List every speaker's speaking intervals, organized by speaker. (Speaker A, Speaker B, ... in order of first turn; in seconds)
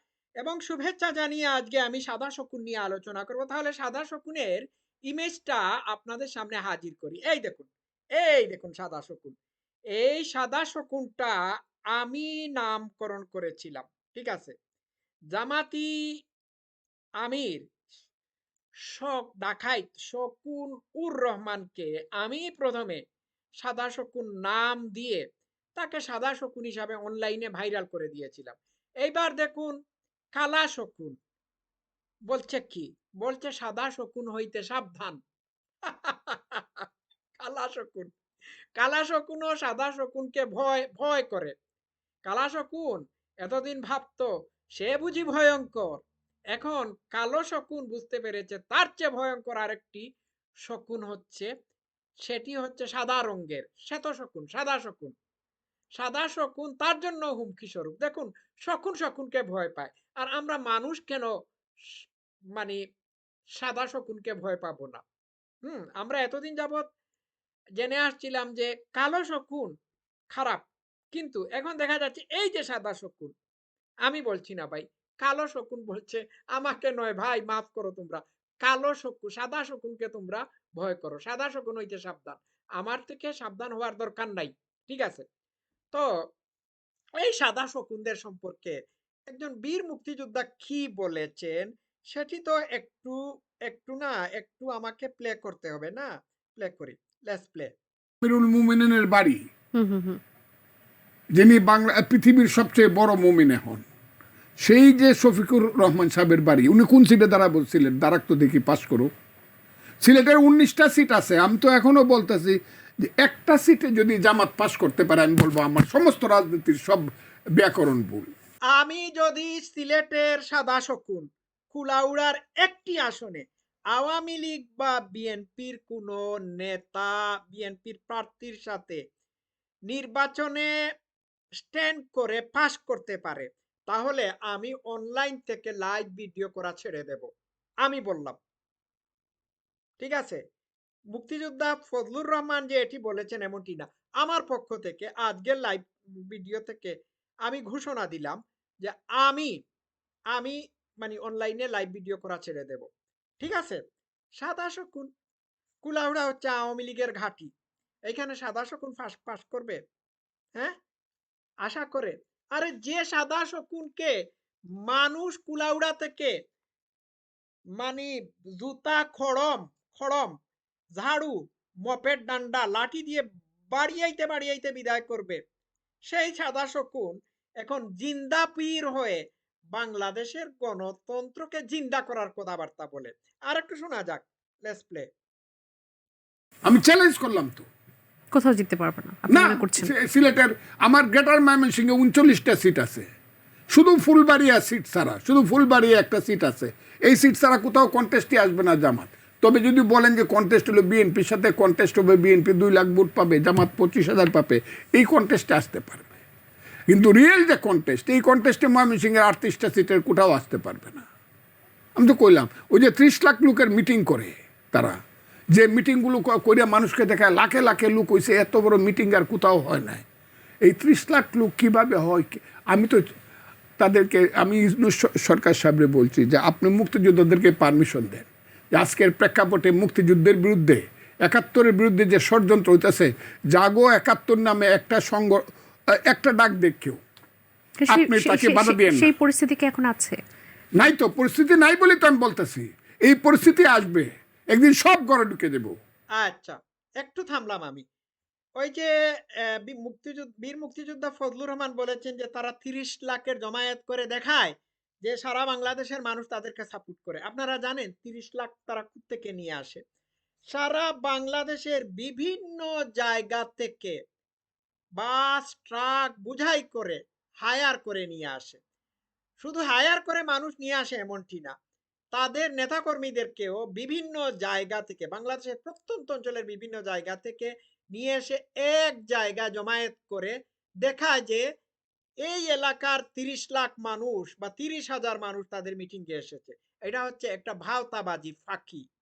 Speaker A: 0.4-9.4, 9.9-11.4, 12.0-14.5, 15.3-15.9, 17.2-17.6, 18.9-23.0, 23.6-25.2, 25.8-29.8, 30.4-31.1, 32.3-35.2, 35.9-36.9, 37.4-38.1, 38.8-41.5, 42.3-50.0, 50.7-51.5, 52.2-55.1, 56.0-61.3, 62.0-62.8, 63.6-65.0, 65.7-66.8, 67.8-69.7, 70.3-73.3, 74.0-85.2, 87.2-97.7, 118.7-129.0, 129.9-130.7, 131.6-137.3, 137.8-138.4, 140.0-140.4, 141.1-146.9, 147.5-149.5, 150.3-152.9, 153.4-153.8, 154.4-155.1, 155.8-157.5, 158.1-159.8, 161.7-164.1, 164.8-166.3, 167.8-170.3, 171.0-175.4, 176.1-179.2, 179.7-185.1, 246.2-247.8, 248.6-248.9, 249.5-259.8, 260.5-264.0, 265.0-268.6, 269.4-271.5, 272.1-281.4, 282.2-288.9
Speaker B: 98.2-99.4, 101.4-103.9, 104.6-109.1, 110.0-118.3, 186.7-187.7, 189.3-193.1, 193.7-206.1, 206.9-211.1, 212.0-215.0, 215.5-220.0, 220.7-223.0, 223.8-235.4, 235.9-237.0, 237.9-239.1, 240.8-245.7
Speaker C: 99.8-100.2, 188.3-189.9, 237.8-240.2